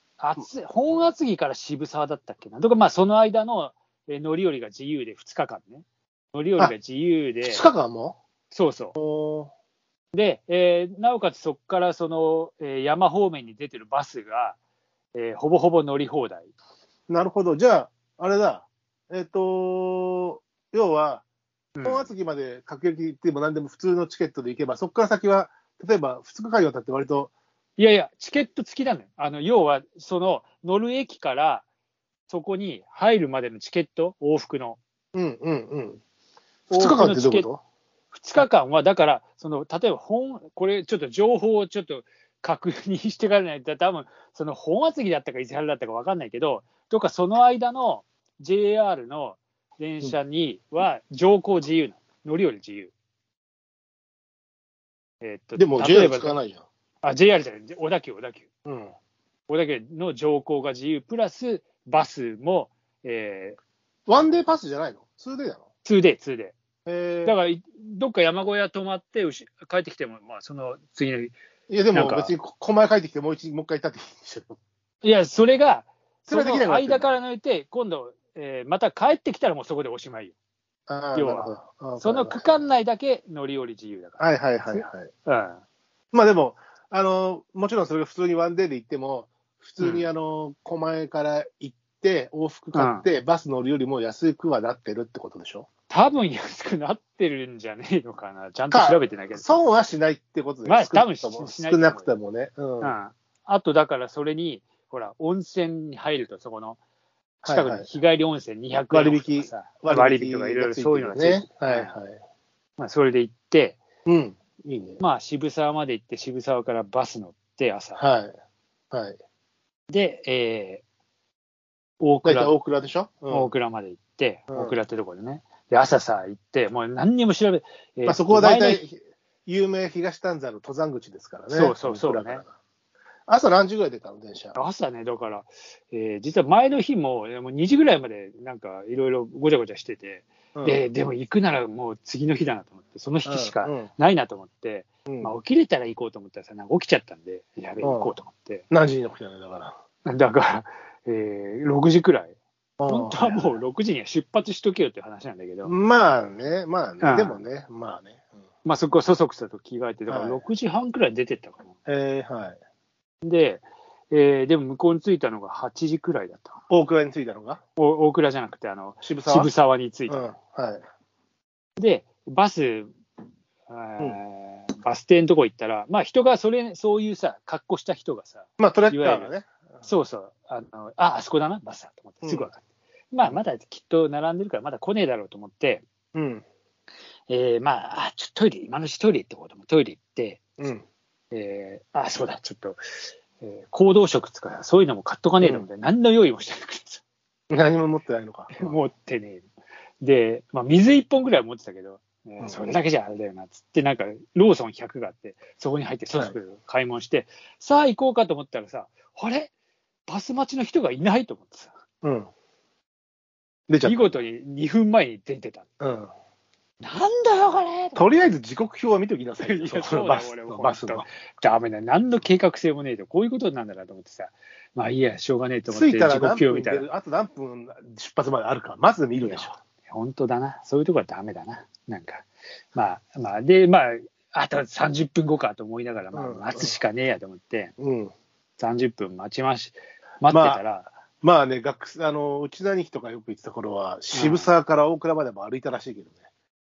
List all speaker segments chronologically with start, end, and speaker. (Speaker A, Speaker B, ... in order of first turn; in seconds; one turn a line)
Speaker A: 0.2-7.7
Speaker B: 7.4-8.2
Speaker A: 8.5-9.0
Speaker B: 9.0-9.5
Speaker A: 10.1-14.6
Speaker A: 15.2-16.5
Speaker B: 17.1-21.2
Speaker A: 21.8-22.1
Speaker B: 21.8-27.3
Speaker A: 27.8-31.6
Speaker A: 32.3-34.8
Speaker B: 35.1-36.0
Speaker A: 36.7-37.5
Speaker B: 36.7-37.6
Speaker A: 38.1-52.9
Speaker A: 55.2-56.4
Speaker B: 55.6-56.6
Speaker A: 57.0-58.5
Speaker B: 58.7-58.9
Speaker A: 59.5-63.6
Speaker B: 64.1-65.6
Speaker A: 65.8-66.5
Speaker B: 66.9-67.3
Speaker A: 67.2-71.3
Speaker B: 71.7-74.6
Speaker A: 71.9-72.3
Speaker A: 75.0-80.3
Speaker B: 76.3-77.2
Speaker B: 80.9-82.6
Speaker A: 81.2-85.6
Speaker B: 84.2-85.1
Speaker B: 86.1-95.7
Speaker A: 89.8-90.1
Speaker A: 92.7-93.1
Speaker A: 95.9-99.6
Speaker B: 98.7-103.0
Speaker A: 100.7-102.1
Speaker A: 102.8-106.8
Speaker B: 107.4-107.9
Speaker A: 107.5-112.0
Speaker B: 108.9-112.2
Speaker A: 112.8-113.8
Speaker B: 114.1-115.0
Speaker A: 115.0-118.0
Speaker B: 118.0-118.3
Speaker B: 118.9-119.2
Speaker A: 119.9-120.8
Speaker A: 122.0-122.5
Speaker B: 122.2-123.5
Speaker A: 123.3-128.8
Speaker B: 128.1-132.5
Speaker A: 131.5-132.4
Speaker B: 133.3-134.6
Speaker A: 134.6-148.7
Speaker B: 140.6-140.8
Speaker B: 143.2-143.9
Speaker B: 145.1-145.3
Speaker B: 147.8-148.1
Speaker B: 148.7-149.8
Speaker A: 150.1-152.3
Speaker B: 152.8-153.6
Speaker A: 152.9-155.7
Speaker B: 155.7-158.3
Speaker A: 157.0-157.4
Speaker A: 158.7-161.7
Speaker B: 160.1-160.4
Speaker B: 161.9-162.6
Speaker A: 163.2-166.6
Speaker B: 166.7-167.6
Speaker A: 167.8-170.3
Speaker B: 169.0-169.5
Speaker B: 170.1-170.8
Speaker A: 171.8-172.9
Speaker A: 173.7-185.8
Speaker B: 178.6-179.5
Speaker B: 182.2-182.5
Speaker B: 186.1-186.4
Speaker A: 187.3-190.5
Speaker B: 190.6-190.8
Speaker A: 191.3-192.8
Speaker A: 193.4-197.0
Speaker B: 195.4-195.7
Speaker B: 197.5-198.8
Speaker A: 198.6-199.4
Speaker A: 200.0-209.5
Speaker A: 210.1-211.7
Speaker B: 212.0-212.3
Speaker B: 213.7-214.0
Speaker A: 213.8-215.7
Speaker B: 215.8-216.1
Speaker A: 216.8-218.1
Speaker B: 217.9-221.1
Speaker A: 219.4-226.9
Speaker B: 225.7-229.6
Speaker A: 229.2-237.7
Speaker B: 236.1-236.8
Speaker B: 237.8-238.1
Speaker A: 238.6-240.9
Speaker B: 240.3-240.6
Speaker B: 241.2-246.2
Speaker A: 244.1-244.5